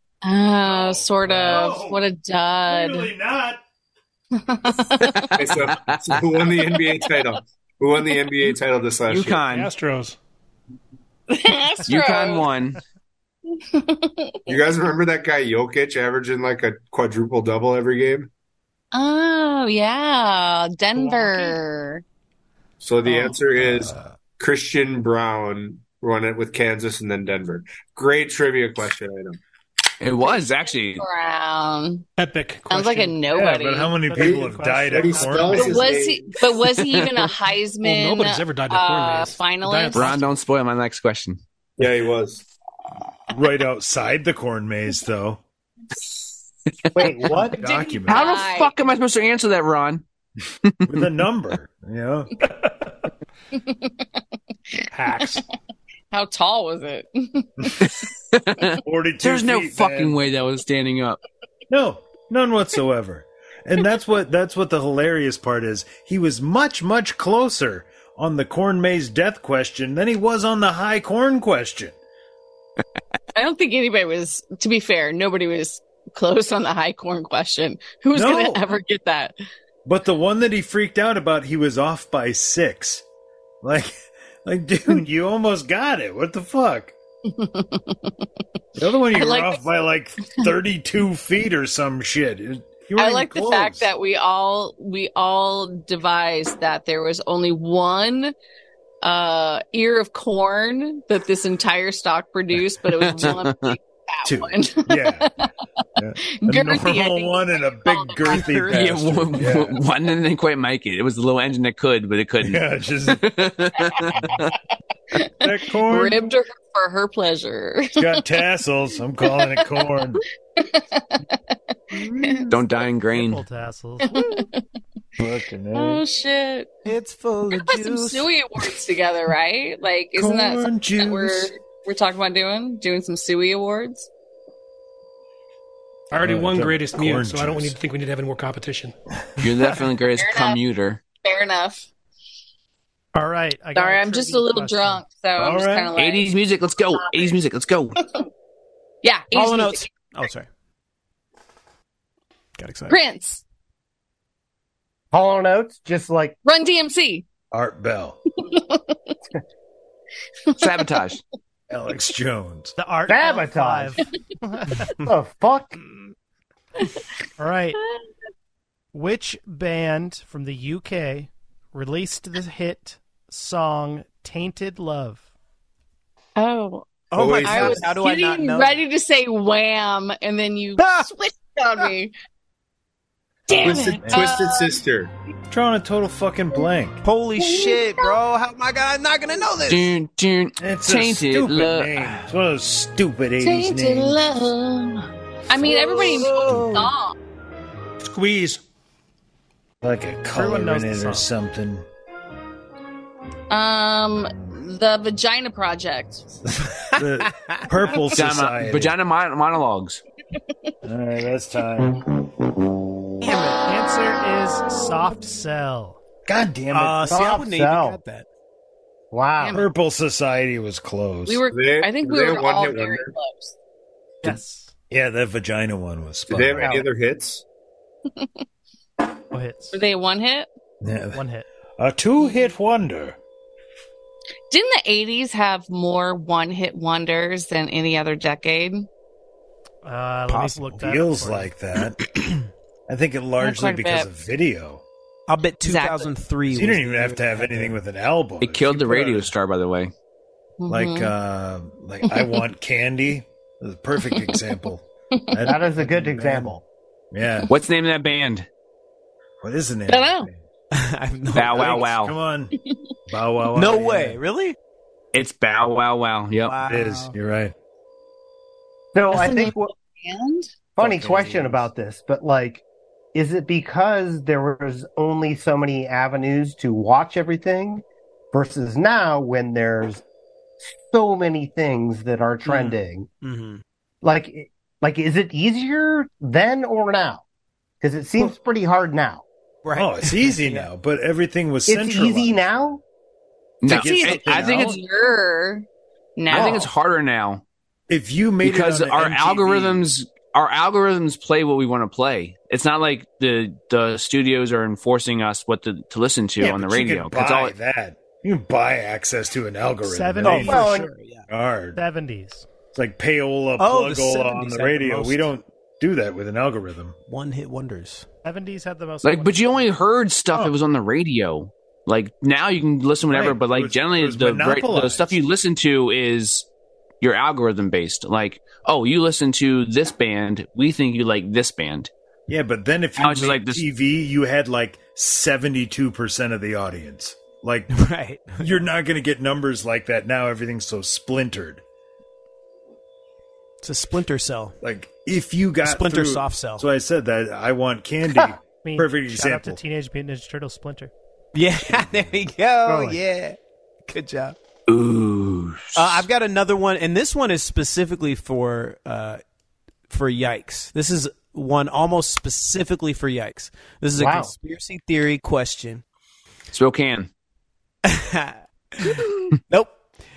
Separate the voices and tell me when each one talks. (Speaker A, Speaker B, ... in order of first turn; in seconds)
Speaker A: 0.2-3.1, 4.4-5.4, 11.3-12.5, 13.5-14.4, 18.9-22.0, 30.2-32.1, 32.7-34.1, 35.5-40.1, 47.6-48.7, 53.5-53.9, 56.1-58.0, 73.3-79.3, 87.3-88.1, 89.1-89.7, 93.0-98.3, 99.0-105.5, 106.3-108.5, 113.9-114.3, 115.8-118.2, 120.6-122.5, 124.0-124.6, 125.7-126.8, 127.5-134.1, 140.2-140.6, 141.2-141.9, 143.8-146.3, 146.9-147.4, 149.0-149.9, 152.9-153.4, 156.4-157.3, 158.4-159.1, 160.5-160.8, 176.4-182.1, 183.5-184.7, 187.4-188.2, 193.4-197.2, 203.5-206.2, 219.4-219.7, 221.3-223.6, 229.7-230.5, 232.2-232.5, 234.5-238.9, 243.4-244.1, 245.6-246.1, 250.6-251.1, 252.1-252.4, 259.9-260.3, 269.1-270.5, 293.7-295.7, 296.2-296.7
Speaker B: 0.6-2.0, 2.7-3.6, 33.3-35.9, 43.3-45.4, 47.5-48.3, 50.9-52.3, 58.8-60.2, 61.7-72.0, 78.1-78.7, 79.8-83.0, 83.6-86.9, 88.8-93.9, 104.2-105.3, 106.0-109.8, 112.4-113.3, 115.4-116.2, 118.0-120.2, 121.9-122.6, 125.2-126.0, 130.2-131.5, 136.2-137.8, 145.4-145.9, 157.5-158.2, 161.7-162.8, 183.6-184.3, 185.5-187.0, 190.6-194.2, 196.4-196.7, 199.8-201.8, 206.5-208.9, 210.8-212.1, 216.3-217.3, 219.5-221.4, 224.9-226.8, 230.8-231.2, 231.8-233.2, 240.8-242.0, 242.9-244.8, 246.5-249.3, 250.7-256.6, 257.1-257.5, 259.4-260.4, 261.5-262.6, 263.1-264.2, 266.7-267.5, 270.8-271.6, 289.8-292.7, 293.7-294.8, 297.9-299.9, 306.4-310.6, 311.3-311.8, 312.7-317.0, 323.1-325.2, 332.3-337.7, 338.4-341.6, 344.6-349.6
Speaker C: 5.0-6.2, 9.1-9.7, 11.9-12.8, 30.0-31.1, 36.7-37.1, 39.9-41.4, 48.1-50.0, 50.6-51.0, 57.8-61.2, 102.9-103.8, 108.7-114.4, 122.5-123.4, 139.4-141.0, 146.0-148.0, 160.6-161.2, 189.7-192.2, 208.1-210.0, 248.4-249.9, 257.5-258.5, 261.3-262.1, 265.1-266.6, 293.6-294.8, 296.3-297.4, 298.4-307.5, 319.0-326.5, 327.0-331.9, 333.0-333.6, 354.7-356.1, 366.5-367.1
Speaker D: 5.4-9.4, 14.5-18.3, 22.8-29.4, 34.1-36.4, 41.8-42.4, 177.2-177.9, 183.5-185.1, 221.5-223.1, 226.3-227.4
Speaker E: 9.5-10.2, 32.2-33.2, 37.8-40.2, 54.9-55.4, 136.1-139.0, 198.0-198.6
Speaker F: 21.0-21.5, 34.6-35.6, 123.1-124.2, 143.1-145.0, 162.8-164.9, 167.4-167.8, 168.9-175.3, 200.3-201.3, 213.7-216.0, 224.2-224.7, 229.3-229.8, 231.1-231.5, 239.8-241.5, 309.8-310.8, 311.8-312.5, 318.2-319.7, 348.6-350.9, 352.7-353.0
Speaker G: 46.9-47.6, 155.1-156.4, 163.1-164.0, 165.0-165.8, 217.1-218.0, 219.1-219.6, 255.4-256.6, 268.9-269.7, 270.8-272.6, 273.1-280.0, 280.6-283.1, 284.0-287.2, 287.8-289.2, 291.7-292.8, 310.4-310.9, 363.9-364.3
Speaker H: 108.3-108.9, 126.9-128.3, 149.3-150.5, 152.6-153.0, 177.1-178.8, 180.8-181.1, 187.0-189.9, 195.6-196.9, 206.9-207.7, 213.2-213.7, 216.7-218.3, 240.3-240.9, 245.3-247.8, 260.7-261.8, 263.6-264.6, 266.4-267.1, 270.8-271.4, 282.4-283.6, 289.6-290.7, 310.2-311.3, 313.6-315.3, 317.1-318.1, 337.7-338.6, 343.6-344.6, 345.6-346.7, 351.3-354.4, 355.8-359.2, 359.9-365.8, 367.9-369.8